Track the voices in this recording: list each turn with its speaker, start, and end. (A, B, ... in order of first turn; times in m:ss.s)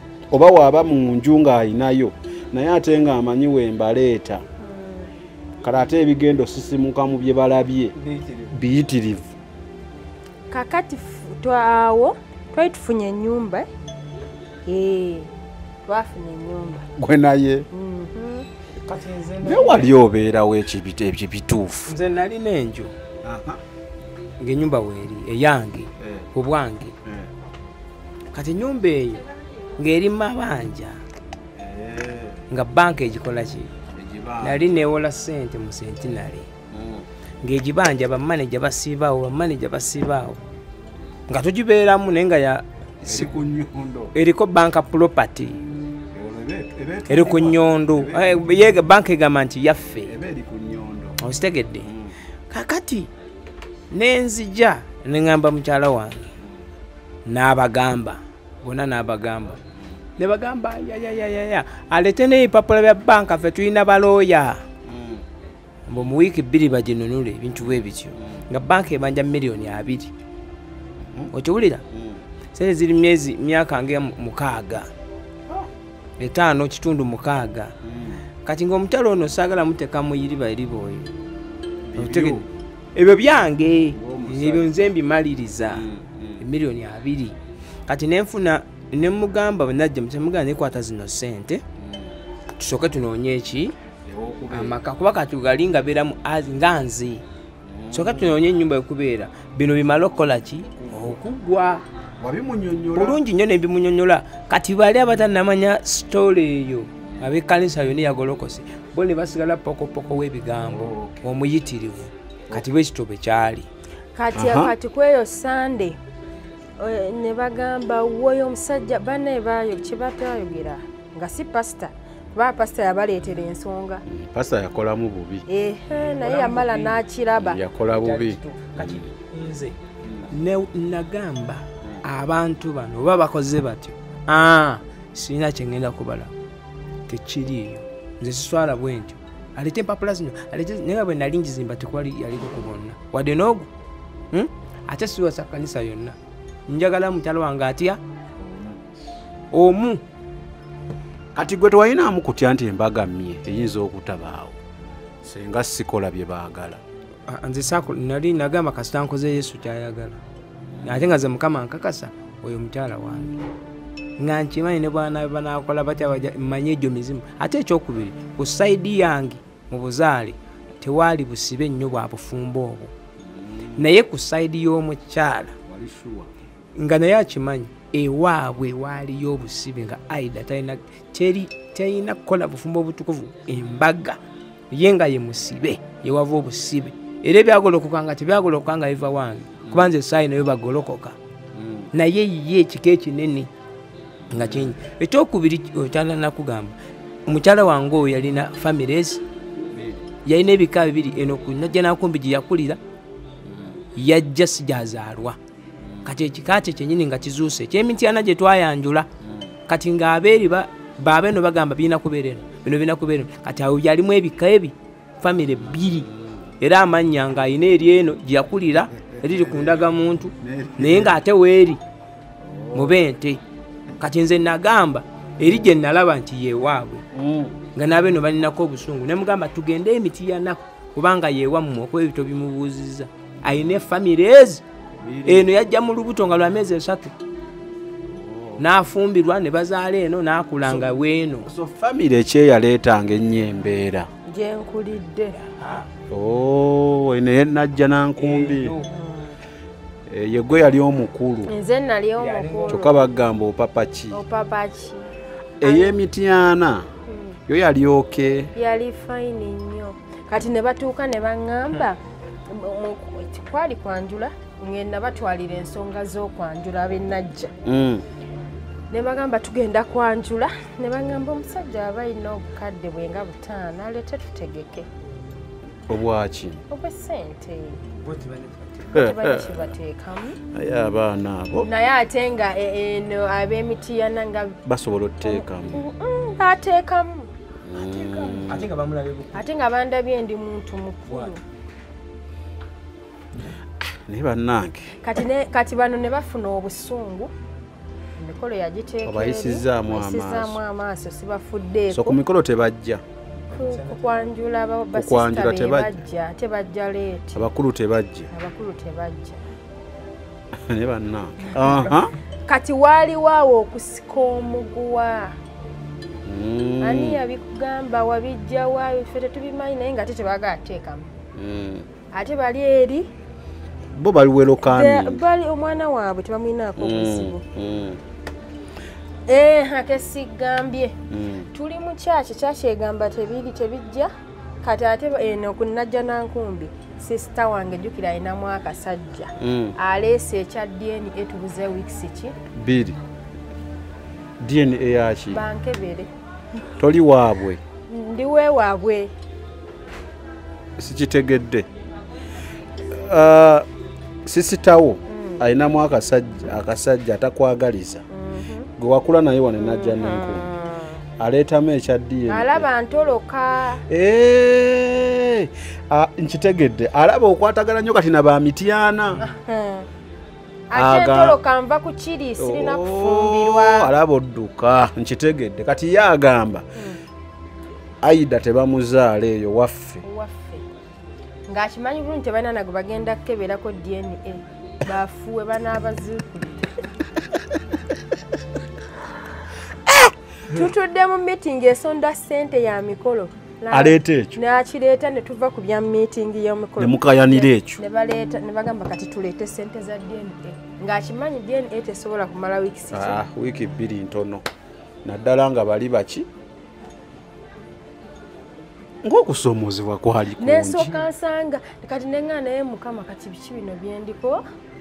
0:00.3-0:04.4 A
0:04.6-0:05.1 B
0:05.6-0:08.0 A
0:08.0-0:08.6 C
0:08.5-0:09.3 A
0:10.5-0:13.7 B
0:14.7-0:15.3 B
0:15.9-0:16.9 B
0:17.0-0:17.7 A
0:17.7-0:18.5 B
0:18.8-0:19.9 C
0:19.4-0:22.0 A
0:21.9-0:22.9 C
0:23.2-0:23.6 A
0:24.4-0:26.9 C
0:26.0-0:26.3 A
0:27.0-0:27.3 A
0:28.3-0:29.2 C
0:29.8-0:31.0 C
0:31.6-0:32.4 A
0:32.5-0:33.7 C
0:33.9-0:34.6 A
0:34.4-0:36.5 C
0:36.7-0:37.1 A
0:37.4-0:40.4 C
0:41.3-0:43.3 C
0:43.0-0:44.1 A
0:44.1-0:45.6 C
0:46.1-0:48.4 A
0:47.1-0:50.2 C
0:50.1-0:51.2 A
0:51.2-0:51.9 C
0:51.8-0:52.1 A
0:52.5-0:53.1 C
0:53.9-0:56.3 C
0:57.3-0:59.6 C
1:00.2-1:04.6 C
1:04.9-1:05.2 A
1:05.9-1:10.1 C
1:08.2-1:08.4 A
1:11.3-1:11.8 C
1:11.9-1:12.2 A
1:12.5-1:14.9 C
1:16.2-1:17.7 C
1:17.8-1:18.2 A
1:18.4-1:21.1 C
1:21.9-1:22.5 A
1:22.0-1:22.4 C
1:23.0-1:25.8 C
1:23.9-1:24.9 A
1:25.7-1:26.4 A
1:26.4-1:27.4 C
1:27.9-1:31.6 C
1:31.8-1:32.1 A
1:32.6-1:33.8 C
1:34.1-1:34.8 A
1:34.5-1:37.2 C
1:37.6-1:38.4 A
1:37.9-1:41.8 C
1:40.9-1:41.2 A
1:42.2-1:43.2 A
1:43.0-1:53.7 C
1:50.6-1:51.2 A
1:54.2-1:56.0 B
1:54.4-1:54.7 A
1:56.8-2:04.0 B
2:04.1-2:05.4 A
2:05.5-2:07.6 B
2:05.9-2:07.0 C
2:07.4-2:09.1 A
2:07.8-2:09.8 C
2:10.0-2:10.3 A
2:10.3-2:16.3 C
2:17.1-2:23.7 C
2:24.3-2:26.2 C
2:26.7-2:28.0 C
2:28.4-2:28.8 A
2:29.5-2:30.0 C
2:31.4-2:34.6 A
2:35.2-2:36.8 A
2:37.3-2:40.2 C
2:40.7-2:41.1 A
2:40.8-2:43.4 C
2:44.2-2:52.9 C
2:53.2-2:53.9 A
2:53.8-2:55.5 C
2:55.7-2:56.3 A
2:56.8-3:04.2 C
3:04.7-3:11.2 C
3:09.6-3:09.9 A
3:11.5-3:11.9 A
3:11.9-3:13.5 C
3:14.3-3:14.8 A
3:14.3-3:16.7 C
3:17.3-3:19.2 C
3:19.7-3:20.0 A
3:20.2-3:22.8 C
3:23.4-3:23.8 A
3:24.0-3:25.4 C
3:25.8-3:26.1 A
3:26.1-3:29.1 C
3:29.2-3:29.5 A
3:29.7-3:36.1 C
3:36.1-3:36.4 A
3:36.6-3:41.8 C
3:39.1-3:39.8 A
3:40.4-3:41.2 A
3:42.4-3:43.0 A
3:42.7-3:43.4 C
3:44.0-3:47.0 C
3:47.1-3:47.6 A
3:47.8-3:54.6 C
3:55.0-3:55.5 A
3:55.3-3:57.1 C
3:58.1-3:58.6 A
3:58.6-4:01.5 C
4:00.6-4:00.9 A
4:01.4-4:04.1 A
4:04.3-4:05.4 B
4:05.4-4:05.9 C
4:06.1-4:08.8 A
4:08.2-4:08.9 C
4:08.9-4:09.4 B
4:10.1-4:11.5 A
4:11.5-4:12.9 B
4:12.2-4:12.9 C
4:12.7-4:14.2 A
4:14.1-4:15.1 B
4:15.6-4:16.9 A
4:15.6-4:16.0 B
4:17.1-4:17.4 B
4:17.5-4:18.5 A
4:18.6-4:27.5 B
4:27.6-4:28.0 A
4:28.9-4:34.9 B
4:35.9-4:36.6 A
4:36.7-4:37.8 B
4:37.9-4:39.1 C
4:38.9-4:40.4 B
4:38.9-4:39.6 A
4:40.5-4:41.7 A
4:41.6-4:44.6 B
4:44.7-4:45.9 A
4:45.2-4:47.3 B
4:47.6-4:48.7 A
4:47.8-4:49.5 C
4:49.3-4:51.4 B
4:51.1-4:51.4 C
4:53.8-4:55.0 A
4:55.0-4:57.3 B
4:58.2-5:02.2 B
4:59.0-5:00.6 A
5:01.9-5:03.0 A
5:03.5-5:04.2 C
5:03.5-5:07.5 B
5:04.9-5:06.0 A
5:07.4-5:08.3 A
5:08.3-5:09.4 B
5:10.6-5:12.1 A
5:12.5-5:15.3 B
5:16.3-5:17.2 A
5:16.8-5:21.1 B
5:21.4-5:21.9 A
5:22.1-5:23.1 B
5:24.0-5:25.2 A
5:24.6-5:27.4 B
5:26.8-5:28.0 A
5:29.3-5:31.0 B
5:31.1-5:31.5 A
5:31.5-5:34.1 B
5:34.6-5:42.4 B
5:39.4-5:39.7 A
5:42.6-5:43.0 A
5:44.4-5:45.4 A
5:45.3-5:46.1 B
5:46.8-5:47.6 A
5:47.9-5:49.1 B
5:50.8-5:51.7 A
5:52.9-5:53.7 A
5:54.3-5:58.0 A
5:55.1-5:55.4 B
5:58.1-5:58.7 B
5:58.8-6:00.5 A
5:59.6-6:00.9 B
6:01.2-6:02.7 A
6:02.3-6:03.8 B
6:03.9-6:09.2 A
6:09.2-6:09.9 B
6:10.7-6:13.9 B
6:10.8-6:11.4 A
6:12.4-6:16.6 A
6:18.0-6:20.0 A
6:20.0-6:20.6 B
6:21.5-6:26.7 B
6:29.9-6:30.1 A
6:30.5-6:43.2 B
6:33.7-6:34.4 A
6:36.8-6:37.8 A
6:42.9-6:44.4 A
6:45.0-6:46.3 A
6:49.0-6:50.9 A
6:50.4-6:54.4 B